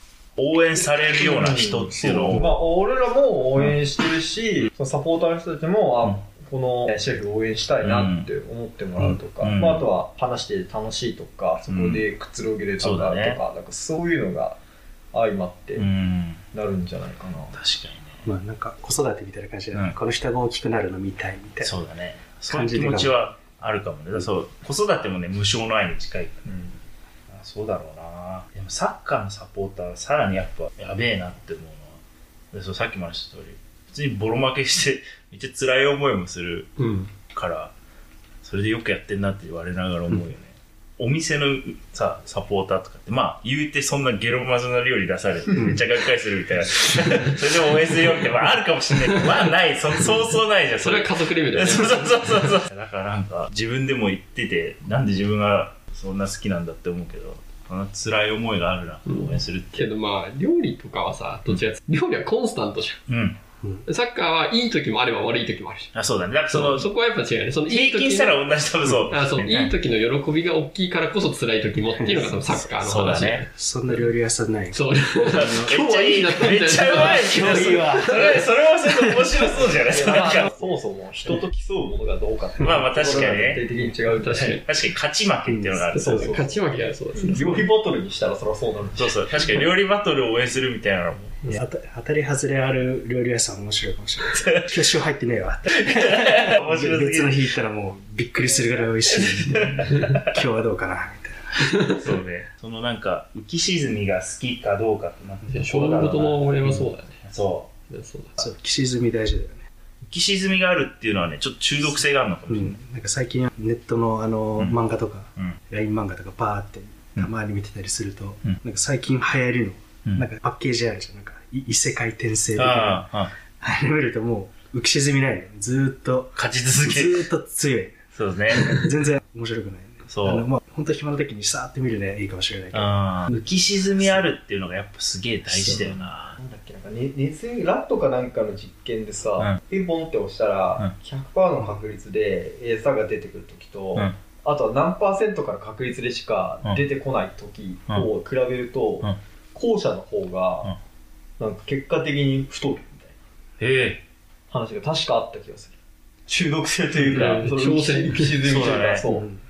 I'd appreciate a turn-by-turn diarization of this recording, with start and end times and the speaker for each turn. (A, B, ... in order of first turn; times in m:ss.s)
0:00.4-0:02.6 A
0:01.2-0:14.6 B
0:07.8-0:08.3 A
0:09.0-0:09.8 A
0:11.6-0:12.0 A
0:12.8-0:13.4 A
0:15.1-0:15.9 B
0:15.8-0:16.4 A
0:16.5-0:17.5 B
0:17.5-0:18.3 A
0:18.2-0:21.8 C
0:21.6-0:26.4 A
0:22.5-0:23.2 C
0:26.4-0:26.8 B
0:27.3-0:32.0 A
0:32.5-0:36.7 A
0:36.8-0:37.1 D
0:37.3-0:37.7 A
0:38.4-0:59.9 A
0:50.8-0:52.4 D
0:59.0-1:03.0 D
1:03.1-1:03.4 A
1:03.9-1:05.9 D
1:05.9-1:06.9 A
1:06.5-1:13.5 D
1:07.6-1:09.7 A
1:12.0-1:12.7 C
1:12.8-1:13.4 A
1:13.5-1:15.8 C
1:14.7-1:18.4 D
1:15.3-1:20.5 A
1:16.6-1:19.5 C
1:19.9-1:24.6 B
1:22.6-1:23.6 A
1:24.1-1:24.6 D
1:24.4-1:26.4 A
1:25.4-1:26.2 C
1:25.9-1:26.6 B
1:26.1-1:27.6 D
1:27.2-1:29.6 B
1:29.0-1:31.6 A
1:31.5-1:42.0 C
1:35.7-1:37.4 A
1:39.2-1:40.3 A
1:41.9-1:46.7 A
1:45.5-1:47.2 D
1:47.2-1:47.7 A
1:47.9-1:48.3 D
1:48.4-1:49.6 C
1:50.0-1:52.8 A
1:52.5-2:03.0 C
2:02.5-2:03.3 A
2:03.6-2:08.0 C
2:06.4-2:07.2 A
2:08.1-2:08.8 A
2:08.5-2:13.4 C
2:10.1-2:10.5 A
2:12.7-2:16.4 A
2:14.0-2:14.2 C
2:15.5-2:16.0 C
2:16.4-2:30.7 B
2:31.4-2:33.1 B
2:33.6-2:34.0 A
2:34.5-2:39.3 B
2:37.0-2:38.6 D
2:37.0-2:37.4 A
2:38.4-2:39.0 A
2:39.1-2:39.4 C